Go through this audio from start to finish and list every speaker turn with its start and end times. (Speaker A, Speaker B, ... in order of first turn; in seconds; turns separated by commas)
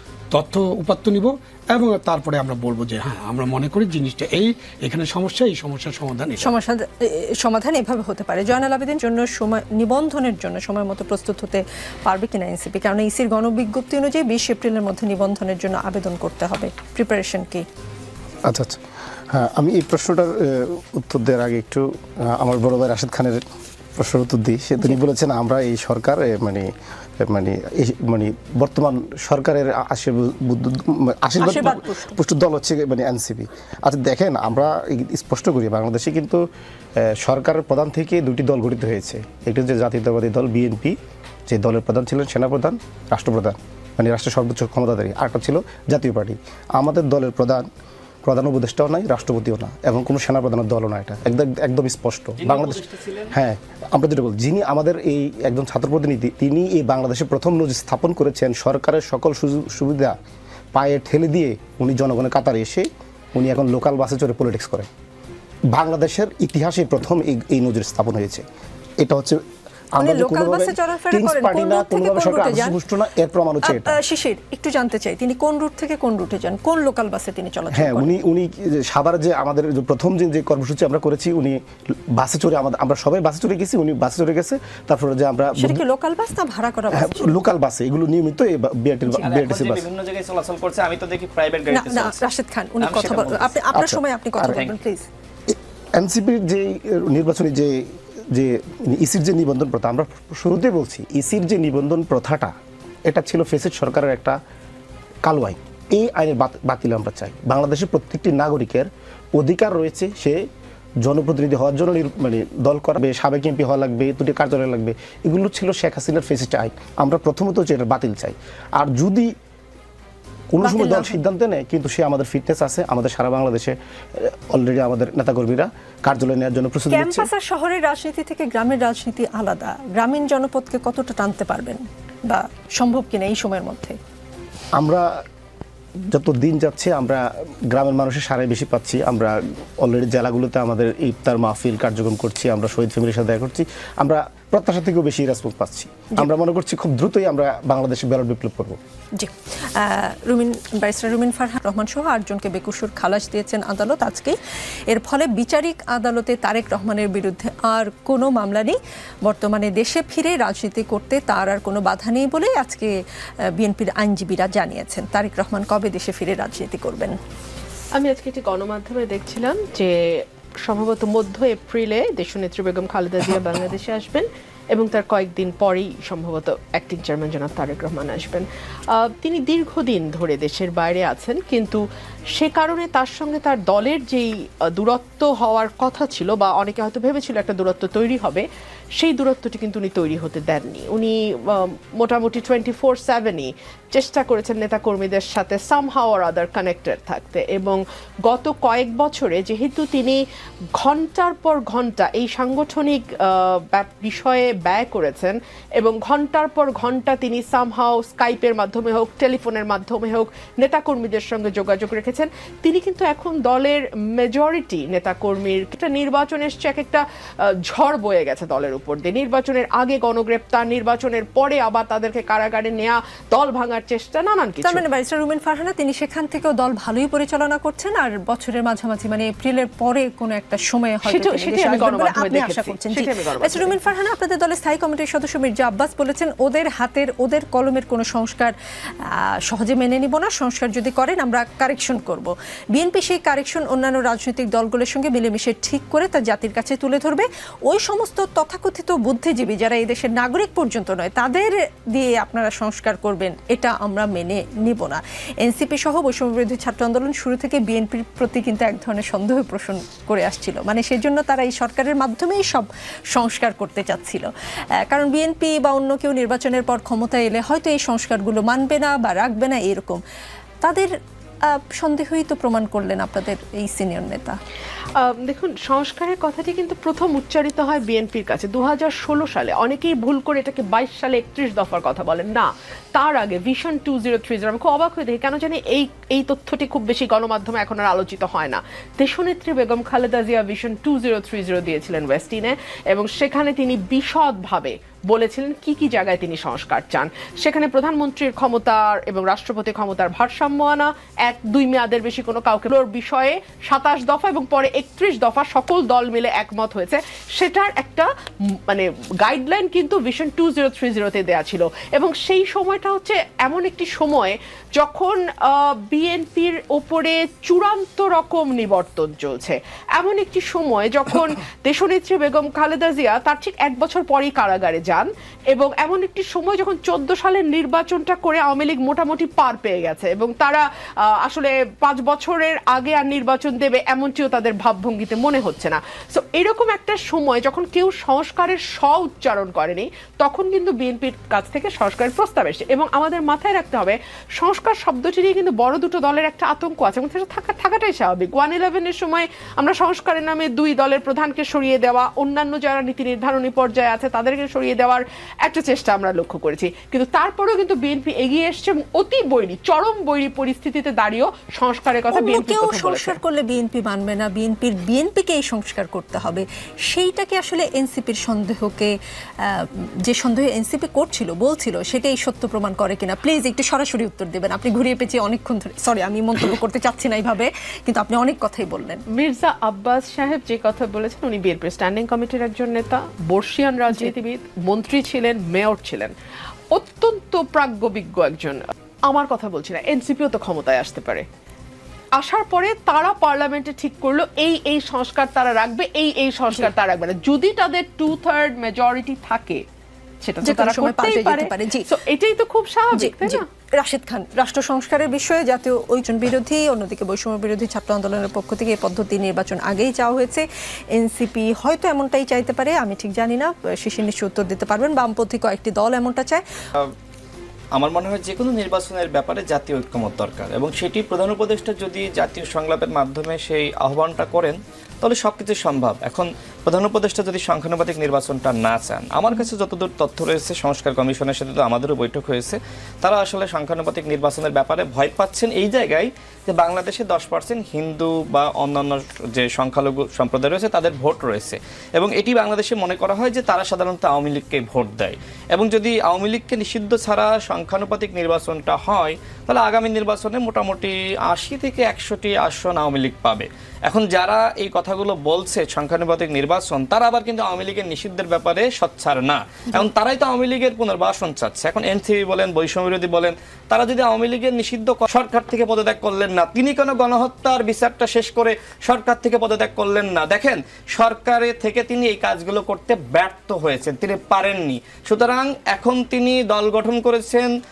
Speaker A: 0.3-6.5, Speaker B: 6.4-17.6, Speaker C: 18.5-18.8, Speaker C: 19.3-23.4, Speaker C: 24.0-26.7, Speaker C: 27.2-36.4, Speaker B: 31.4-32.2, Speaker C: 37.0-41.0, Speaker C: 41.5-47.6, Speaker C: 48.2-60.1, Speaker D: 52.4-53.3, Speaker C: 60.7-64.9, Speaker C: 65.7-68.4, Speaker C: 69.0-69.4, Speaker C: 70.0-74.0, Speaker B: 70.0-72.8, Speaker B: 73.6-78.1, Speaker C: 77.7-81.6, Speaker C: 82.1-85.8, Speaker B: 85.6-87.4, Speaker C: 86.9-89.8, Speaker D: 89.2-92.2, Speaker B: 91.7-95.1, Speaker D: 92.8-93.6, Speaker C: 93.7-94.6, Speaker C: 95.5-102.5, Speaker C: 103.1-104.4, Speaker C: 105.2-110.4, Speaker C: 111.0-119.3, Speaker C: 120.5-127.3, Speaker B: 120.6-121.2, Speaker B: 126.9-134.0, Speaker C: 134.8-135.1, Speaker C: 136.1-148.8, Speaker B: 149.2-154.4, Speaker B: 154.9-162.9, Speaker B: 163.6-167.2, Speaker E: 167.9-181.8, Speaker E: 182.3-188.4, Speaker E: 189.0-200.2, Speaker E: 200.8-224.8, Speaker B: 224.6-238.5, Speaker E: 231.0-233.8, Speaker B: 239.5-264.3, Speaker B: 264.9-270.0, Speaker B: 270.6-270.9, Speaker B: 271.5-274.4, Speaker E: 274.9-308.1, Speaker E: 308.7-363.2, Speaker B: 362.1-379.0, Speaker E: 379.1-386.1, Speaker E: 386.7-391.2, Speaker E: 392.1-399.6, Speaker E: 400.2-403.4, Speaker B: 400.4-401.9, Speaker B: 402.9-416.4, Speaker D: 417.7-477.5